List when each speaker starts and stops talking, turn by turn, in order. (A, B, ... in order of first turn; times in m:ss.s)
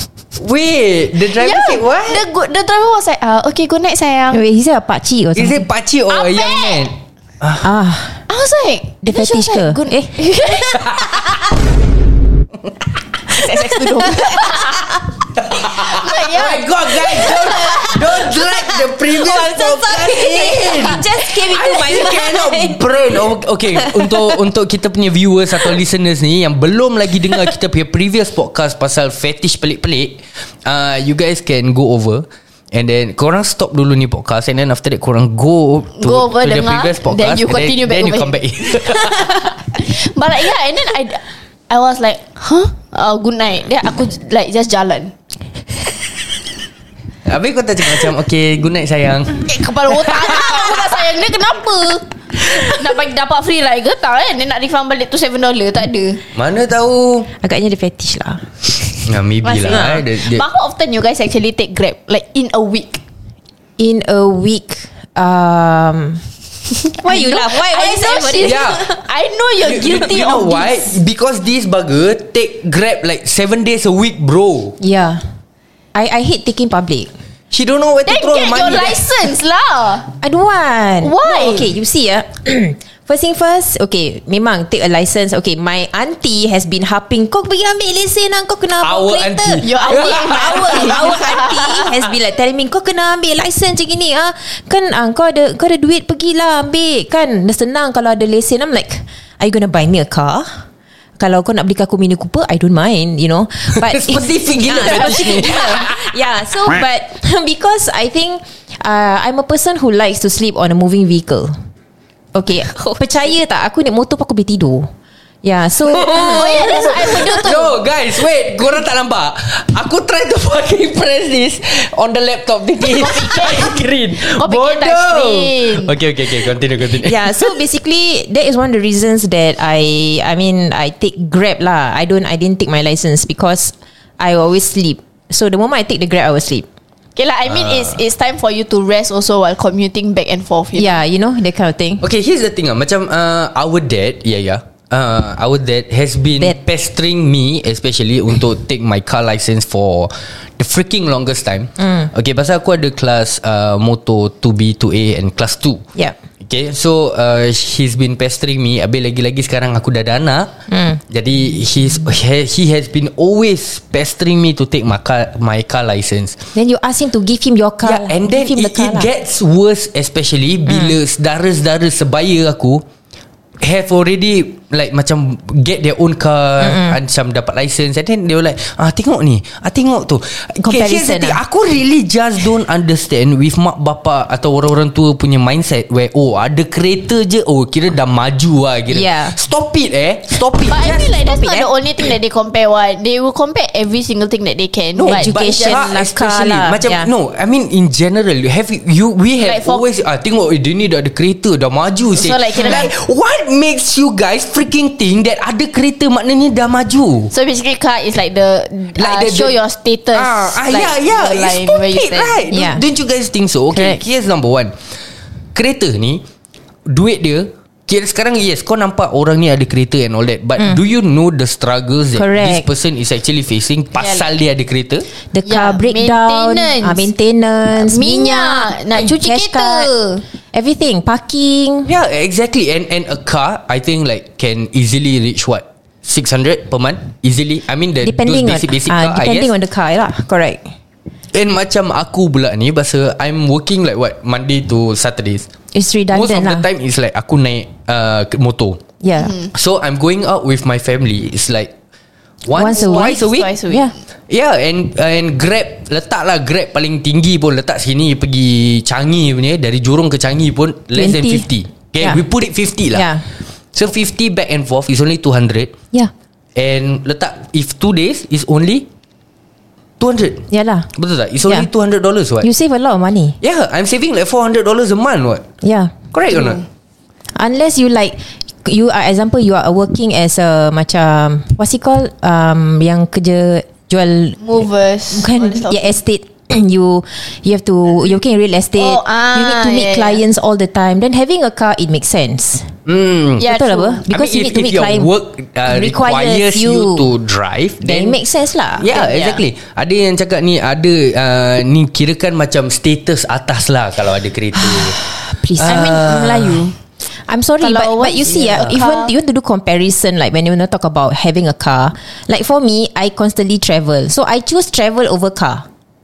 0:00.4-0:02.2 A
0:01.3-0:04.4 B
0:04.3-0:05.6 C
0:05.3-0:07.7 A
0:06.1-0:06.9 B
0:07.6-0:08.2 C
0:08.3-0:10.9 B
0:09.0-0:10.5 C
0:10.8-0:11.3 A
0:13.3-0:14.9 B
0:13.7-0:14.6 C
0:15.4-0:39.6 A
0:15.6-0:18.0 B
0:17.7-0:17.9 C
0:19.0-0:22.9 C
0:23.7-0:24.4 C
0:36.0-0:45.1 B
0:47.2-0:50.8 A
0:49.4-0:56.2 B
0:56.3-0:57.3 A
0:57.4-0:58.4 C
0:59.0-1:00.4 A
0:59.4-1:03.0 B
0:59.7-1:00.0 C
1:03.8-1:06.2 C
1:06.9-1:09.0 C
1:07.0-1:10.9 B
1:08.4-1:08.8 A
1:09.6-1:14.8 A
1:14.8-1:15.2 C
1:15.9-1:17.1 C
1:17.5-1:19.0 A
1:18.0-1:20.1 B
1:20.2-1:40.5 C
1:21.0-1:21.7 B
1:28.8-1:31.2 A
1:29.6-1:31.9 B
1:41.2-1:51.5 C
1:43.7-1:46.1 A
1:52.3-1:54.9 C
1:52.8-1:53.0 B
1:55.4-1:57.4 C
1:56.0-2:07.5 A
1:56.1-1:57.8 B
2:02.8-2:05.9 B
2:07.0-2:16.6 C
2:17.2-2:20.9 B
2:20.7-2:22.0 C
2:22.0-2:35.8 A
2:31.8-2:32.1 C
2:36.4-2:40.5 A
2:40.7-2:41.0 C
2:41.1-2:46.4 A
2:46.5-2:49.1 C
2:47.8-2:52.8 A
2:50.7-2:50.9 C
2:53.6-3:11.3 A
2:56.6-2:57.0 C
3:00.6-3:01.4 C
3:08.9-3:09.4 C
3:10.6-3:15.9 B
3:11.4-3:11.6 C
3:15.0-3:27.3 A
3:15.0-3:17.1 C
3:19.4-3:19.8 B
3:22.1-3:22.9 B
3:27.3-3:32.4 B
3:28.9-3:29.6 A
3:30.1-3:34.7 A
3:32.5-3:32.8 C
3:33.7-3:34.0 C
3:35.5-3:36.2 A
3:36.9-3:45.0 A
3:42.1-3:42.7 C
3:44.0-3:44.2 B
3:45.3-3:51.9 C
3:45.4-3:47.1 B
3:47.8-3:50.2 B
3:51.8-3:59.5 A
3:58.0-4:00.7 C
4:01.3-4:05.5 A
4:05.7-4:06.6 C
4:06.1-4:08.8 A
4:09.0-4:09.3 C
4:09.2-4:09.5 B
4:09.5-4:11.7 A
4:12.4-4:13.6 A
4:12.5-4:13.9 C
4:12.6-4:13.9 B
4:14.3-4:23.1 A
4:20.9-4:21.5 C
4:22.0-4:22.2 C
4:22.9-4:23.2 C
4:23.7-4:25.7 A
4:26.5-4:28.9 A
4:30.0-4:32.5 A
4:30.5-4:30.9 C
4:32.4-4:33.4 C
4:33.4-4:35.4 A
4:35.6-4:35.9 C
4:36.1-4:36.6 A
4:36.3-4:36.6 B
4:37.3-4:44.4 C
4:44.4-4:45.9 B
4:45.1-4:52.7 C
4:48.8-4:50.2 B
4:52.8-4:53.5 A
4:53.4-4:54.0 B
4:53.4-4:55.1 C
4:54.0-4:58.2 A
4:55.7-4:57.1 C
4:57.8-4:59.1 C
4:58.8-5:05.0 A
4:58.9-4:59.4 B
5:04.6-5:06.2 C
5:05.6-5:06.6 A
5:05.6-5:06.7 B
5:07.3-5:15.6 C
5:07.6-5:09.1 B